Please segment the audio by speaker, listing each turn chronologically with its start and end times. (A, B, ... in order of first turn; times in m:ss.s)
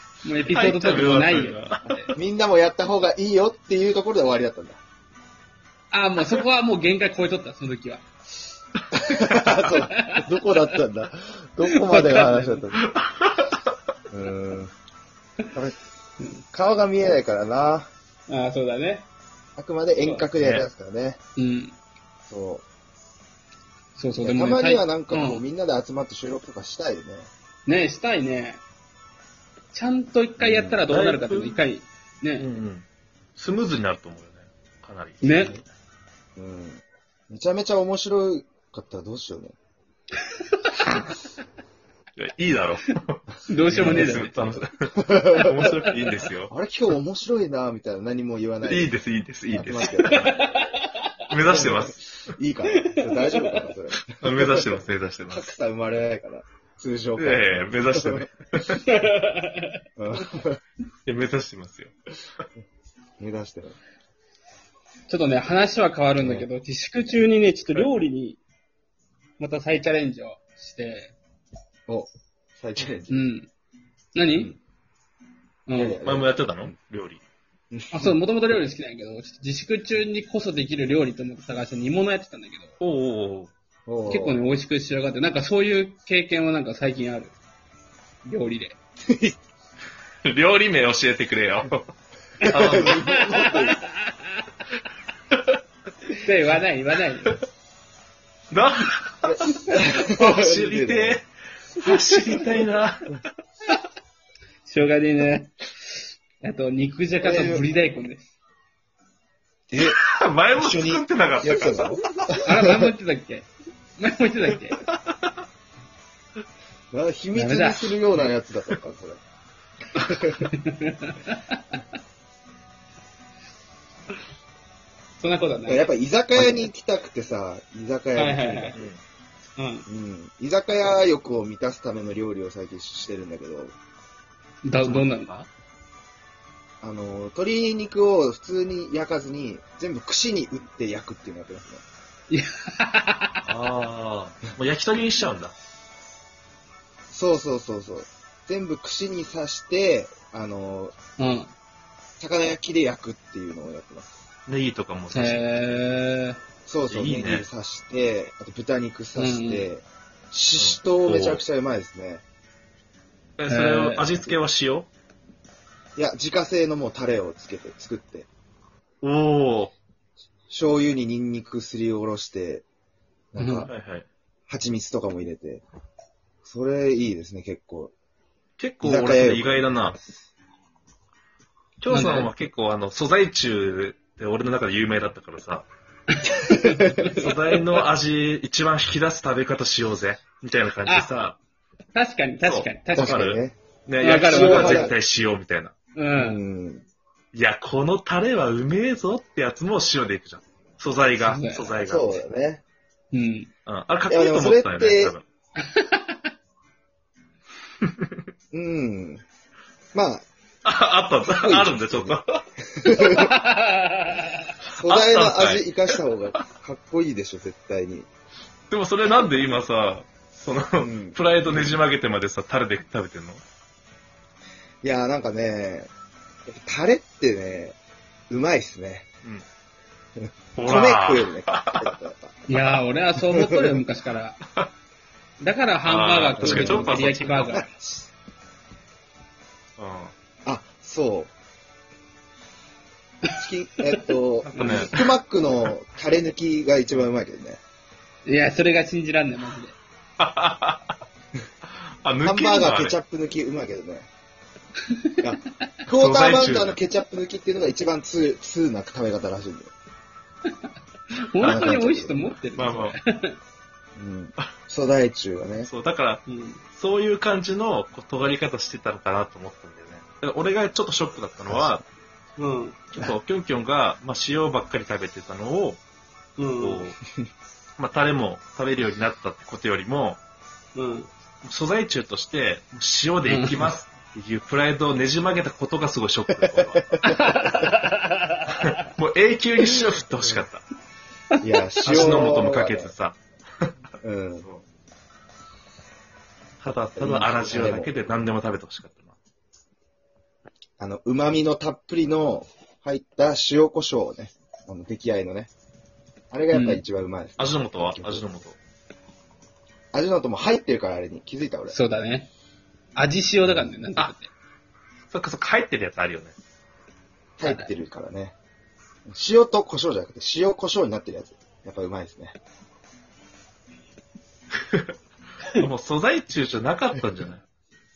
0:00.2-0:02.1 A
0:00.5-0:02.0 B
0:02.1-0:04.8 C
0:05.9-0:08.0 A
0:09.0-0:12.9 C
0:09.9-0:10.2 A
0:11.7-0:12.6 A
0:12.8-0:13.6 B
0:14.1-0:14.7 C
0:16.5-0:17.9 C
0:18.3-0:19.1 A
0:19.6-0:21.2 C
0:20.0-0:20.2 A
0:20.4-0:20.7 B
0:21.4-0:21.8 A
0:22.3-0:22.6 C
0:24.0-0:25.4 A
0:24.2-0:27.3 C
0:27.6-0:28.6 A
0:29.7-0:32.5 A
0:30.4-0:30.8 C
0:30.9-0:31.6 B
0:32.4-0:32.8 B
0:33.4-0:35.6 B
0:35.2-0:35.6 A
0:36.4-0:39.5 C
0:40.5-0:41.0 A
0:42.2-0:46.5 B
0:43.5-0:44.6 A
0:43.8-0:44.3 C
0:45.0-0:45.7 C
0:46.5-0:48.9 C
0:48.6-0:50.3 B
0:49.5-0:50.4 C
0:50.1-0:51.1 A
0:51.3-0:52.0 B
0:51.5-0:54.7 C
0:52.7-0:53.6 A
0:54.2-0:55.5 B
0:55.3-0:58.3 C
0:57.2-0:58.8 B
0:58.8-0:59.8 A
1:00.0-1:00.6 C
1:01.0-1:02.4 B
1:03.2-1:03.8 C
1:05.1-1:08.4 A
1:06.2-1:06.5 C
1:09.4-1:11.1 A
1:11.9-1:13.2 C
1:13.1-1:13.5 A
1:14.1-1:14.5 A
1:14.3-1:14.6 C
1:15.7-1:16.0 A
1:15.7-1:16.7 C
1:16.0-1:17.2 B
1:17.7-1:18.1 C
1:17.9-1:22.7 A
1:22.8-1:23.5 B
1:23.8-1:24.4 C
1:24.1-1:27.3 A
1:28.2-1:28.8 A
1:29.1-1:29.4 C
1:30.2-1:31.9 B
1:32.4-1:33.2 B
1:32.4-1:33.8 C
1:33.0-1:34.2 A
1:36.1-1:37.4 A
1:38.5-1:43.2 B
1:39.2-1:41.2 C
1:41.9-1:42.4 A
1:44.6-1:45.5 A
1:46.4-1:48.3 A
1:47.2-1:47.6 C
1:49.7-1:50.0 C
1:49.8-1:52.2 B
1:50.6-1:52.8 C
1:52.4-1:54.8 A
1:54.8-1:55.2 B
1:56.9-1:59.2 C
1:57.3-1:58.0 A
2:00.0-2:00.4 C
2:00.5-2:01.6 A
2:05.2-2:06.7 A
2:05.7-2:08.9 C
2:08.2-2:08.8 A
2:08.7-2:09.0 B
2:09.6-2:09.8 A
2:09.8-2:13.7 C
2:14.6-2:15.3 A
2:14.8-2:15.5 B
2:16.8-2:21.8 C
2:22.3-2:23.4 A
2:23.4-2:25.5 B
2:27.1-2:30.9 C
2:31.2-2:31.5 A
2:32.2-2:34.2 C
2:34.5-2:35.8 B
2:35.1-2:36.4 A
2:36.6-2:42.2 C
2:36.9-2:37.4 B
2:39.2-2:39.6 A
2:40.6-2:41.4 B
2:43.4-2:44.9 B
2:43.5-2:44.1 A
2:46.0-2:48.3 C
2:49.0-2:49.7 B
2:50.5-2:52.6 C
2:53.3-2:53.7 C
2:53.4-2:53.7 A
2:53.7-2:54.1 B
2:54.5-2:55.6 C
2:56.4-2:57.9 C
2:58.6-3:00.0 B
2:58.8-3:00.3 C
3:01.8-3:05.6 B
3:01.9-3:02.3 A
3:06.1-3:07.8 A
3:06.4-3:07.1 C
3:07.1-3:11.4 B
3:10.8-3:11.3 A
3:11.9-3:13.3 A
3:12.4-3:15.7 B
3:12.9-3:13.6 C
3:14.0-3:14.9 A
3:14.2-3:14.9 C
3:15.9-3:16.4 A
3:16.1-3:16.8 C
3:17.3-3:22.2 B
3:21.2-3:21.8 A
3:21.8-3:22.6 C
3:23.1-3:23.5 A
3:23.6-3:25.2 B
3:24.1-3:25.2 C
3:25.6-3:26.2 A
3:27.8-3:28.1 B
3:28.5-3:29.2 C
3:29.9-3:30.2 C
3:30.6-3:32.4 B
3:31.2-3:33.3 C
3:32.9-3:34.5 A
3:34.7-3:36.0 B
3:34.7-3:38.1 C
3:38.7-3:43.4 B
3:40.8-3:41.8 C
3:44.8-3:45.9 C
3:46.5-3:47.8 C
3:48.3-3:49.1 C
3:50.2-3:52.4 C
3:50.6-3:51.9 B
3:52.5-3:54.4 A
3:53.2-3:53.8 C
3:55.4-3:57.7 A
3:55.8-3:57.6 B
3:56.4-3:58.1 C
3:59.8-4:00.1 B
4:00.4-4:01.3 C
4:03.4-4:07.6 C
4:04.5-4:04.9 A
4:04.6-4:05.0 B
4:08.2-4:09.7 A
4:10.2-4:11.0 B
4:12.0-4:13.0 B
4:12.2-4:14.1 C
4:15.2-4:19.7 C
4:15.9-4:16.8 B
4:21.3-4:23.4 A
4:21.4-4:22.3 C
4:21.4-4:21.8 B
4:22.5-4:23.0 B
4:24.0-4:25.7 C
4:25.6-4:26.2 B
4:26.2-4:26.6 A
4:26.7-4:31.8 B
4:31.5-4:31.8 C
4:32.4-4:32.8 A
4:32.9-4:35.8 B
4:36.4-4:36.8 A
4:36.6-4:37.0 B
4:37.8-4:40.2 B
4:40.7-4:41.1 A
4:41.4-4:46.9 B
4:43.2-4:43.7 A
4:46.6-4:47.5 C
4:47.0-4:48.7 A
4:48.5-4:50.6 B
4:51.4-4:52.9 C
4:51.8-4:53.7 B
4:54.0-4:54.5 C
4:56.6-4:59.1 B
4:57.0-4:57.9 C
5:00.8-5:05.5 C
5:06.3-5:08.2 C
5:06.5-5:06.8 A
5:07.4-5:08.6 B
5:09.9-5:11.7 C
5:11.7-5:12.3 A
5:12.9-5:14.3 A
5:15.1-5:16.3 B
5:17.4-5:18.3 C
5:19.1-5:22.4 C
5:25.6-5:27.4 B